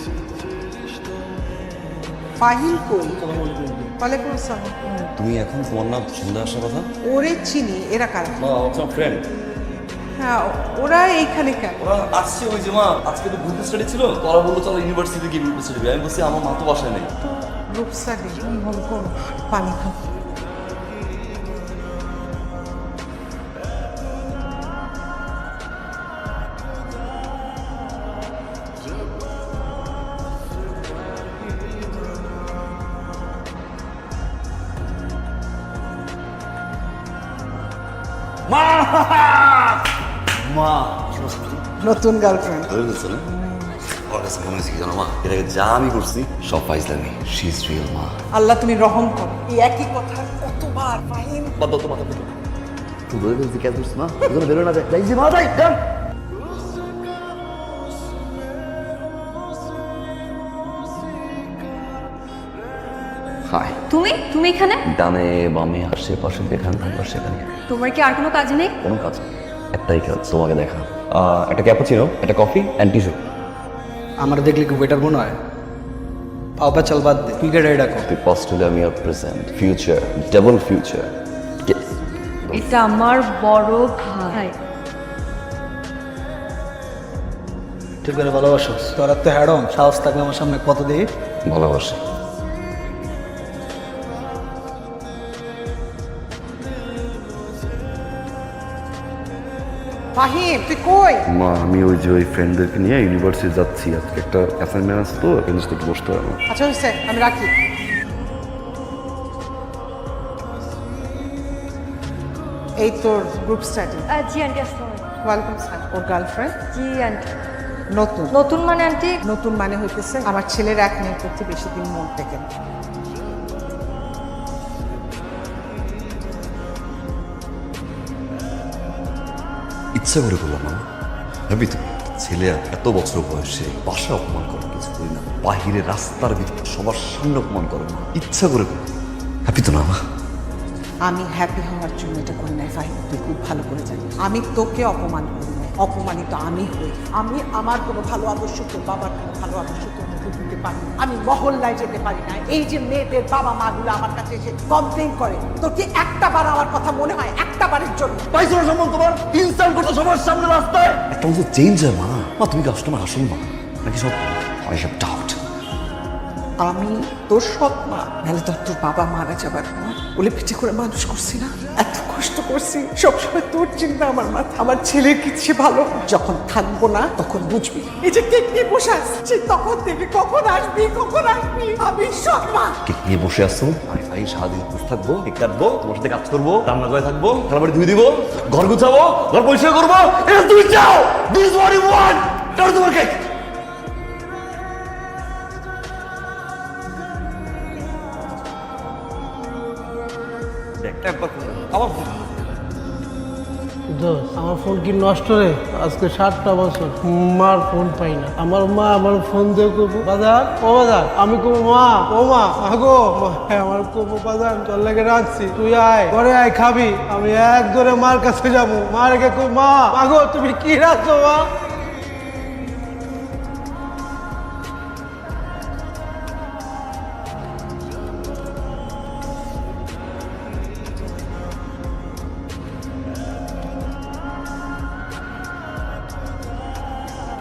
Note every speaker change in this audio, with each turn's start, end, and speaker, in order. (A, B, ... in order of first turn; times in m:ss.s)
0:02.4-0:03.2 A
0:03.2-0:03.9 B
0:04.0-0:05.1 A
0:05.2-0:06.9 C
0:07.0-0:08.4 A
0:08.4-0:09.2 C
0:10.2-0:11.8 A
0:11.8-0:17.1 C
0:17.2-0:20.0 A
0:38.5-0:39.8 C
0:40.3-0:41.6 C
0:41.8-0:42.7 A
0:42.7-0:43.2 C
0:44.1-0:48.1 C
0:48.3-0:51.6 A
0:51.6-0:52.3 C
0:53.1-0:55.8 C
1:03.4-1:03.8 C
1:03.9-1:04.8 D
1:04.8-1:07.5 C
1:07.7-1:08.7 D
1:08.8-1:13.2 C
1:14.2-1:15.4 B
1:16.6-1:18.0 B
1:18.0-1:21.1 C
1:22.4-1:22.8 C
1:22.5-1:24.5 D
1:28.0-1:31.1 B
1:31.5-1:32.0 C
1:40.1-1:41.2 A
1:41.3-1:46.4 C
1:46.5-1:47.5 A
1:52.8-1:54.1 A
1:54.1-1:55.0 D
1:55.2-1:56.6 A
1:56.7-1:57.3 D
1:57.9-1:58.4 A
1:58.3-1:59.1 D
1:59.2-2:02.5 A
2:10.0-2:10.8 C
2:11.5-2:18.8 C
2:19.4-2:20.0 C
2:21.0-2:38.3 A
2:38.3-2:45.4 C
2:46.6-3:02.8 A
3:02.8-3:13.2 C
3:20.8-3:22.2 C
3:23.9-3:41.5 E